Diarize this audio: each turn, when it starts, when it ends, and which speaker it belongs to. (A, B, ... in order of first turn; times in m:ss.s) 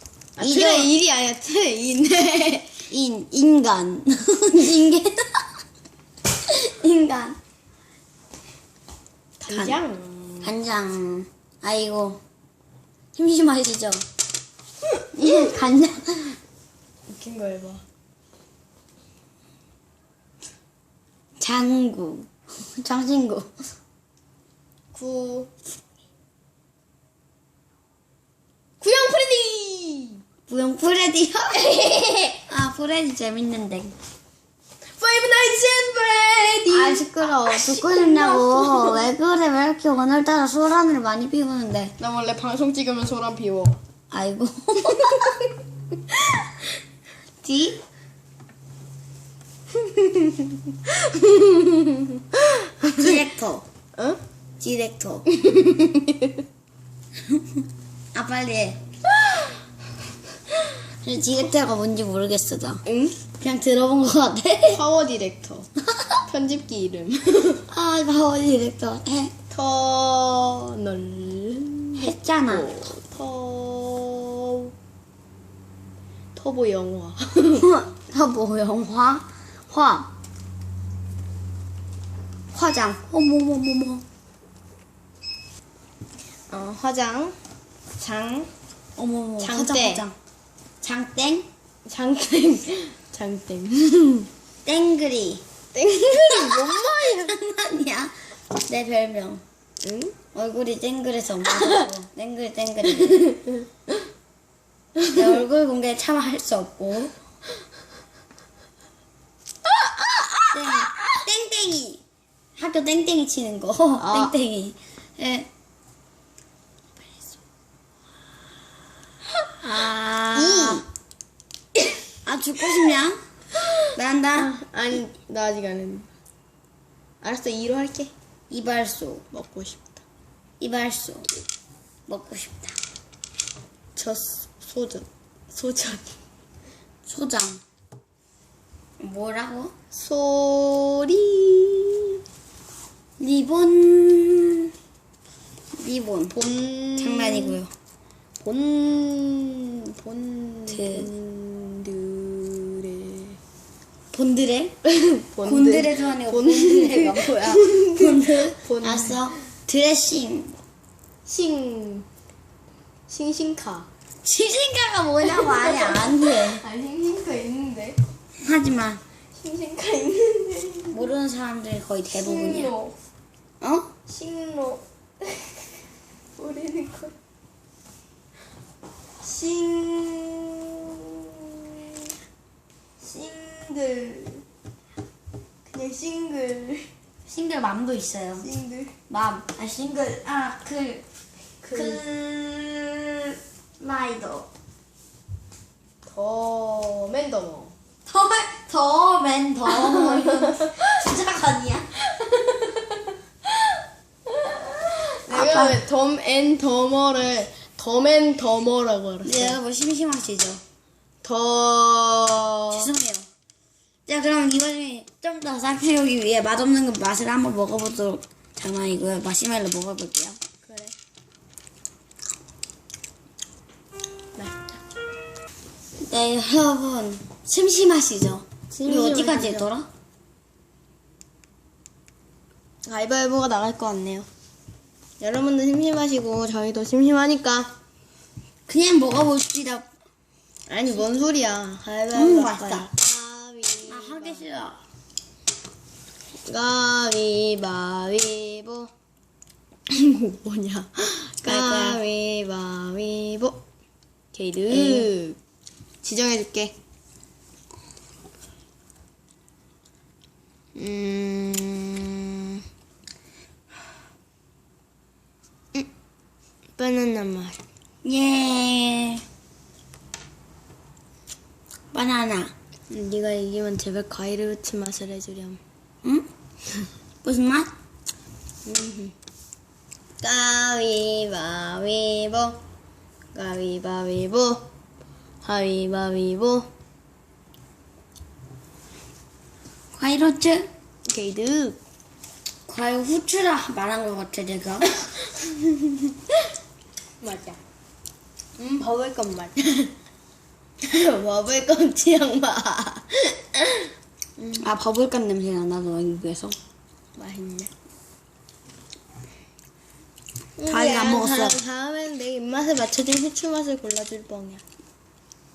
0:00.4-0:02.8 A
0:00.4-0:00.9 B
0:02.9-0:05.4 B
0:06.5-0:07.4 B
0:09.4-0:10.5 A
0:09.5-0:09.8 B
0:10.4-0:12.2 B
0:13.2-0:14.1 B
0:15.1-0:16.4 B
0:17.1-0:17.8 A
0:21.4-0:23.5 B
0:24.9-0:25.5 A
0:28.8-0:30.2 A
0:30.5-0:33.9 B
0:35.0-0:39.1 A
0:36.7-0:41.9 B
0:42.0-0:43.8 A
0:44.1-0:45.4 B
0:46.1-0:46.4 A
0:47.4-0:47.8 B
0:49.8-0:53.2 A
0:53.0-0:53.7 B
0:54.6-0:55.2 B
0:55.3-0:56.4 A
0:58.1-0:58.8 B
1:01.0-1:02.8 B
1:02.9-1:03.2 A
1:03.4-1:04.8 B
1:04.7-1:05.7 A
1:05.9-1:06.2 B
1:06.3-1:07.7 A
1:07.7-1:09.3 B
1:09.5-1:14.7 A
1:12.0-1:12.7 B
1:16.4-1:17.7 A
1:17.6-1:20.1 B
1:22.5-1:24.0 B
1:26.5-1:27.4 A
1:28.0-1:28.5 A
1:29.0-1:30.2 B
1:29.4-1:30.0 A
1:30.8-1:31.5 B
1:31.9-1:34.3 A
1:34.6-1:35.4 B
1:35.7-1:37.3 A
1:36.1-1:39.4 B
1:39.8-1:40.2 A
1:40.3-1:43.4 B
1:43.0-1:43.6 A
1:45.1-1:47.1 B
1:50.0-1:51.0 A
1:50.5-1:52.0 B
1:52.6-1:55.5 B
1:54.0-1:54.3 A
1:59.6-2:00.8 B
2:00.3-2:00.8 A
2:02.2-2:03.2 B
2:04.0-2:04.5 B
2:04.4-2:06.1 A
2:07.2-2:08.1 A
2:08.5-2:09.2 B
2:09.3-2:10.0 A
2:10.6-2:11.3 B
2:12.1-2:12.8 B
2:14.0-2:16.2 A
2:17.1-2:17.6 B
2:19.0-2:19.7 B
2:19.9-2:22.0 A
2:23.2-2:24.7 B
2:25.7-2:26.4 B
2:26.3-2:27.6 A
2:27.0-2:27.7 B
2:28.4-2:33.4 A
2:30.7-2:31.1 B
2:34.1-2:34.7 B
2:34.8-2:39.3 A
2:35.4-2:40.5 B
2:41.3-2:42.1 A
2:43.1-2:43.9 A
2:44.2-2:46.6 B
2:45.2-2:48.0 A
2:48.4-2:49.0 B
2:49.4-2:51.0 A
2:50.9-2:52.7 B
2:52.1-2:53.0 A
2:53.6-2:53.9 B
2:54.1-2:55.6 A
2:56.4-2:57.2 A
2:59.2-3:02.0 A
3:03.0-3:04.4 A
3:05.7-3:06.9 A
3:07.3-3:08.5 B
3:08.4-3:08.9 A
3:09.1-3:11.0 B
3:11.6-3:12.0 A
3:11.7-3:14.5 B
3:16.1-3:17.7 A
3:18.1-3:21.9 B
3:19.7-3:20.8 A
3:22.1-3:29.6 A
3:25.3-3:25.8 B
3:29.2-3:30.6 B
3:31.2-3:32.9 A
3:32.7-3:33.3 B
3:34.1-3:40.4 B
3:40.6-3:40.9 A
3:44.4-3:44.8 A
3:46.0-3:49.9 B
3:48.7-3:49.7 A
3:52.8-3:54.3 A
3:55.2-3:57.7 A
3:58.7-3:59.9 B
4:00.7-4:04.4 A
4:02.1-4:02.9 B
4:03.9-4:04.8 B
4:06.5-4:08.9 A
4:09.9-4:13.6 A
4:11.4-4:12.0 B
4:14.3-4:15.4 A
4:14.7-4:15.1 B
4:16.0-4:16.8 A
4:20.8-4:22.6 A
4:26.8-4:27.6 A
4:28.0-4:29.2 B
4:31.9-4:32.5 B
4:32.9-4:35.6 A
4:37.2-4:37.7 B
4:38.7-4:39.1 A
4:40.2-4:42.6 A
4:43.3-4:44.7 A
4:45.4-4:46.7 A
4:49.9-4:50.7 B
4:51.1-4:51.8 A
4:52.7-4:54.9 B
4:55.3-4:55.8 A
4:57.2-4:57.6 A
4:58.6-4:59.9 A
5:00.8-5:04.5 A
5:04.5-5:06.6 B
5:07.2-5:07.7 A
5:10.6-5:14.6 A
5:10.7-5:11.6 B